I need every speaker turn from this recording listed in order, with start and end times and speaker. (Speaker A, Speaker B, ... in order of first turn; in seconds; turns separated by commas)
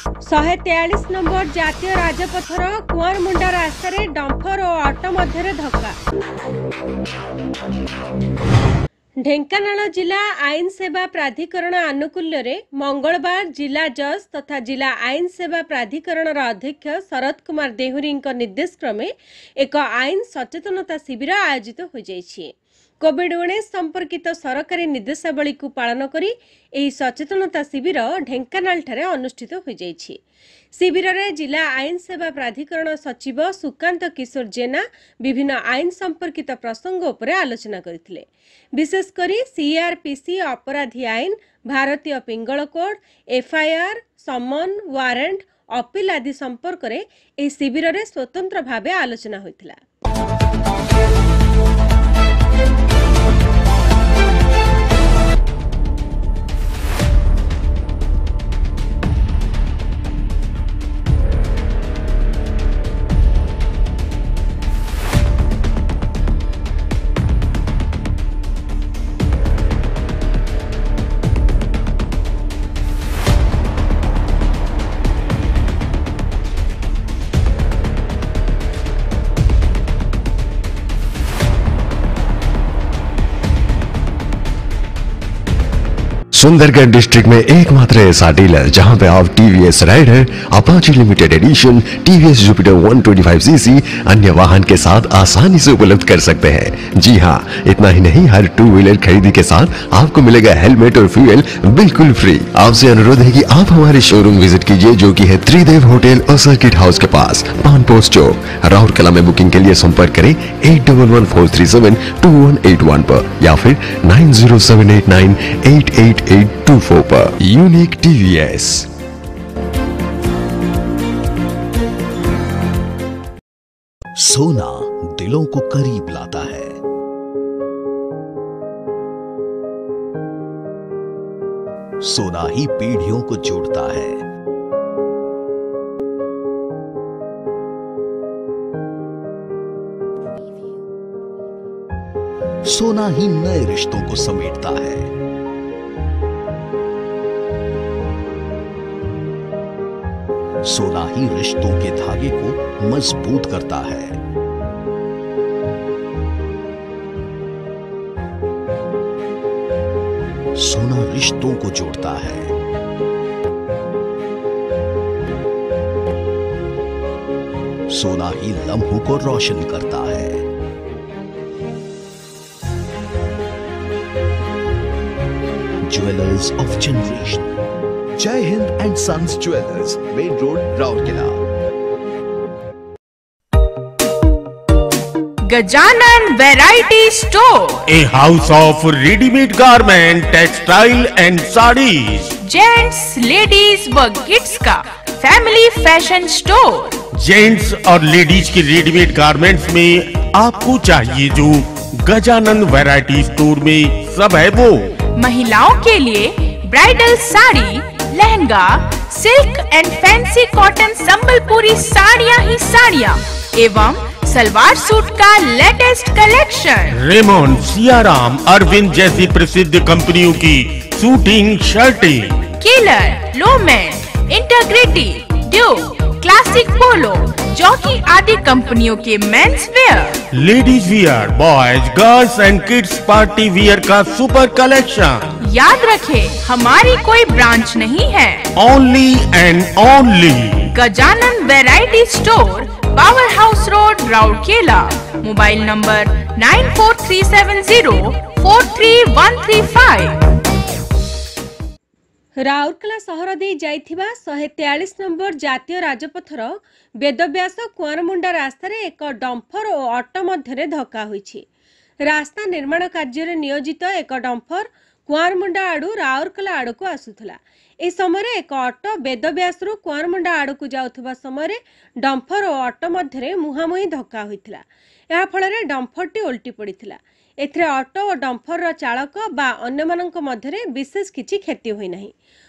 Speaker A: 0.2-6.0, Speaker A: 9.2-30.2, Speaker A: 30.8-49.8, Speaker B: 86.4-118.9, Speaker C: 124.2-126.8, Speaker C: 132.0-134.2, Speaker C: 142.6-145.1, Speaker C: 150.6-154.2, Speaker C: 160.6-162.6, Speaker C: 167.9-170.5, Speaker C: 175.9-177.5, Speaker C: 178.2-181.4, Speaker D: 185.5-187.9, Speaker E: 187.9-192.3, Speaker D: 192.4-197.0, Speaker E: 197.1-204.9, Speaker D: 205.2-217.0, Speaker E: 216.9-222.5, Speaker D: 222.6-230.2, Speaker E: 230.3-235.3, Speaker D: 235.4-238.5, Speaker E: 238.6-240.7, Speaker D: 240.7-250.2, Speaker A: 252.4-261.4, Speaker A: 262.0-282.1